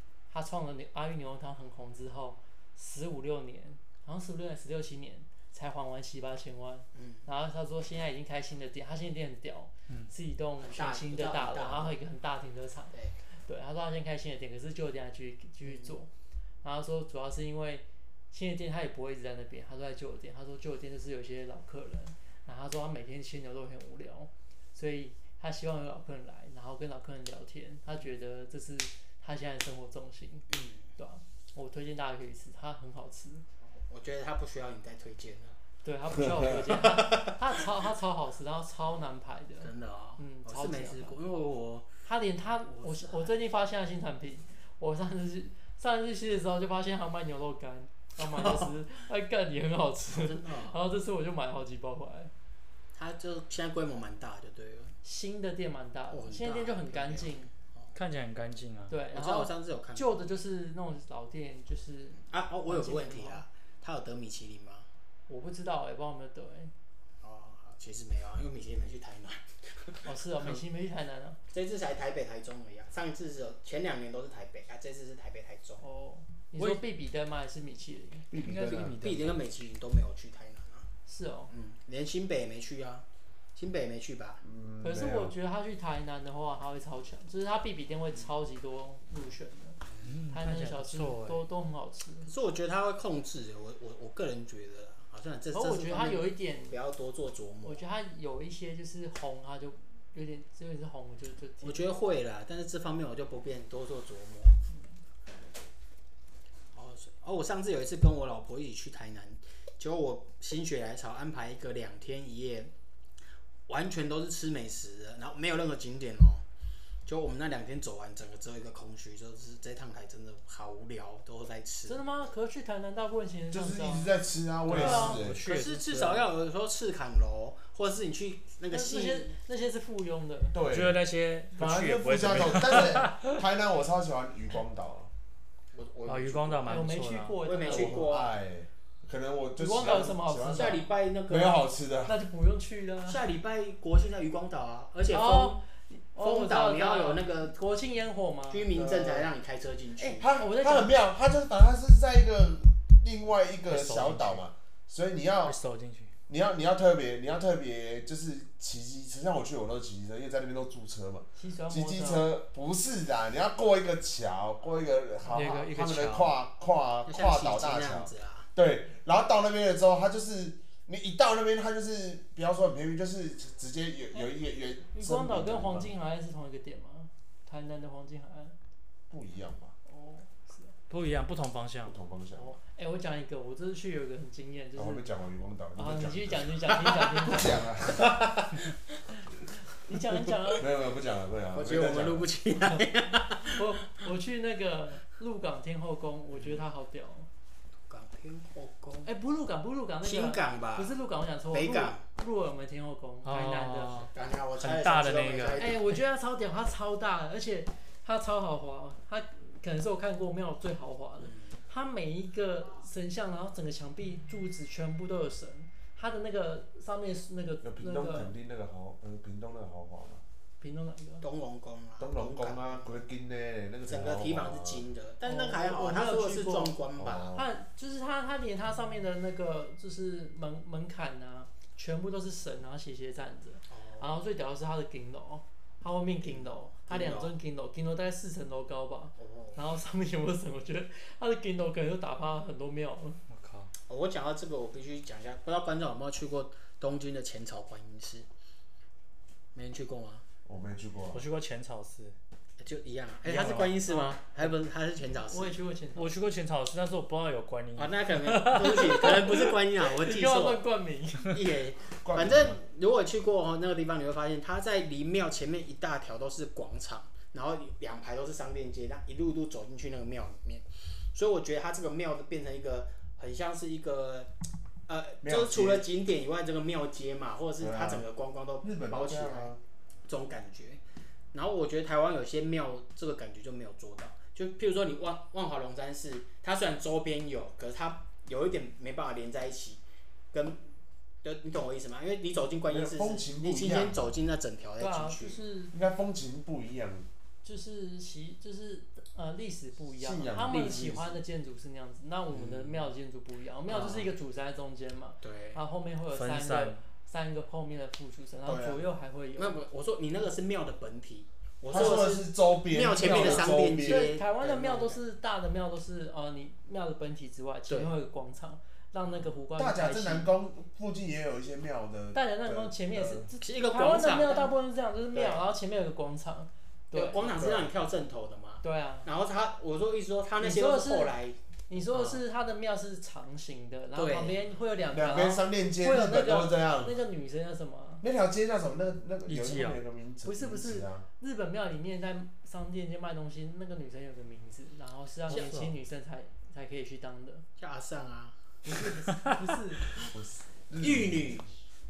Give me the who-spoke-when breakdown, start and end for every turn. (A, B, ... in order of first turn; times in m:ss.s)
0:00.3-0:16.1 A
0:06.9-0:07.2 B
0:10.6-0:12.0 B
0:15.6-0:16.0 B
0:16.6-0:33.4 A
0:30.5-0:30.9 B
0:33.7-0:35.6 B
0:35.8-0:41.2 A
0:36.2-0:36.5 C
0:36.8-0:37.4 B
0:39.6-0:41.9 B
0:42.0-0:52.3 A
0:42.7-0:43.4 B
0:48.2-0:48.7 B
0:50.1-0:50.8 B
0:52.9-0:54.9 B
0:55.0-0:57.5 A
0:56.1-0:57.9 B
0:57.9-0:59.0 D
0:58.9-1:03.4 A
0:59.1-1:00.2 B
1:02.2-1:04.9 B
1:05.3-1:06.7 A
1:07.2-1:10.6 B
1:10.0-1:11.4 A
1:11.5-1:15.8 B
1:15.8-1:18.3 A
1:18.3-1:19.0 C
1:18.3-1:19.4 D
1:18.7-1:20.9 B
1:21.0-1:21.5 A
1:21.5-1:24.4 B
1:24.4-1:25.3 C
1:24.8-1:32.3 A
1:30.0-1:31.4 D
1:32.2-1:37.8 B
1:35.5-1:36.8 A
1:37.6-1:41.9 A
1:41.6-1:44.6 B
1:46.7-1:52.7 B
1:53.7-1:56.4 B
1:57.0-2:02.0 B
2:01.9-2:04.1 A
2:03.5-2:05.4 C
2:04.7-2:06.2 D
2:04.7-2:05.2 A
2:05.4-2:09.3 B
2:08.7-2:10.6 A
2:10.5-2:11.0 C
2:10.6-2:13.3 D
2:11.6-2:15.1 C
2:15.7-2:16.9 B
2:16.0-2:17.4 D
2:16.6-2:18.0 A
2:17.4-2:18.4 B
2:17.6-2:22.2 C
2:19.6-2:20.8 A
2:20.5-2:21.7 B
2:22.1-2:23.2 A
2:23.0-2:25.6 B
2:25.1-2:28.7 A
2:26.2-2:27.5 B
2:28.5-2:30.2 B
2:28.7-2:29.3 C
2:30.0-2:31.0 A
2:30.2-2:35.6 C
2:33.7-2:34.4 D
2:35.4-2:36.1 D
2:36.3-2:55.9 C
2:41.3-2:42.3 A
2:45.3-2:46.3 D
2:47.0-2:48.5 B
2:54.9-2:58.6 A
2:59.1-2:59.7 C
2:59.8-3:00.7 A
3:00.9-3:02.0 D
3:01.8-3:02.6 C
3:02.3-3:05.0 A
3:04.8-3:06.6 C
3:05.8-3:07.6 A
3:06.8-3:07.3 B
3:07.2-3:08.6 C
3:09.8-3:10.6 A
3:10.6-3:12.3 C
3:11.5-3:13.6 B
3:12.6-3:17.3 A
3:17.9-3:19.1 B
3:19.0-3:24.0 A
3:20.0-3:21.0 B
3:21.5-3:22.0 B
3:23.2-3:25.8 D
3:23.9-3:25.8 B
3:25.6-3:38.3 A
3:31.2-3:31.6 B
3:37.6-3:40.2 C
3:40.6-3:41.2 A
3:41.2-3:42.7 B
3:42.0-3:44.8 C
3:43.9-3:47.4 B
3:45.2-3:46.8 A
3:47.0-3:47.4 C
3:47.3-4:03.2 A
3:53.7-3:54.2 B
3:56.2-3:57.3 B
3:59.2-3:59.6 B
4:03.3-4:03.7 D
4:03.9-4:08.3 B
4:09.5-4:10.2 B
4:10.4-4:11.2 C
4:11.1-4:12.2 D
4:12.6-4:15.6 B
4:13.2-4:14.0 D
4:15.3-4:16.2 A
4:16.0-4:19.5 D
4:17.8-4:20.6 B
4:19.9-4:21.3 A
4:21.2-4:34.3 B
4:22.0-4:22.6 C
4:34.9-4:39.5 B
4:35.2-4:35.9 C
4:37.6-4:38.0 C
4:38.6-4:39.6 C
4:40.0-4:40.8 B
4:41.3-4:49.8 B
4:50.3-4:50.7 B
4:51.2-4:55.4 B
4:52.7-4:54.0 C
4:54.8-4:55.8 A
4:55.7-4:57.1 C
4:57.4-5:09.6 A
5:00.0-5:01.2 C
5:00.5-5:00.8 B
5:02.3-5:02.9 B
5:03.7-5:04.1 B
5:05.2-5:05.6 B
5:06.1-5:06.8 D
5:08.4-5:08.8 C
5:09.4-5:15.0 B
5:11.7-5:14.1 C
5:13.0-5:20.3 A
5:17.7-5:17.9 B
5:19.6-5:23.3 C
5:22.1-5:27.2 A
5:23.4-5:24.5 B
5:25.1-5:25.4 B
5:26.9-5:31.4 B
5:27.4-5:27.7 C
5:28.6-5:29.1 A
5:30.4-5:31.2 A
5:31.7-5:38.0 A
5:31.9-5:32.2 B
5:33.9-5:34.4 B
5:34.9-5:37.0 C
5:38.0-5:41.0 C
5:39.3-5:39.8 D
5:40.2-5:47.4 A
5:45.3-5:45.7 D
5:47.6-5:48.4 B
5:48.6-5:49.9 A
5:49.1-5:49.4 D
5:49.8-5:50.1 B
5:50.1-5:51.4 C
5:50.8-5:51.5 B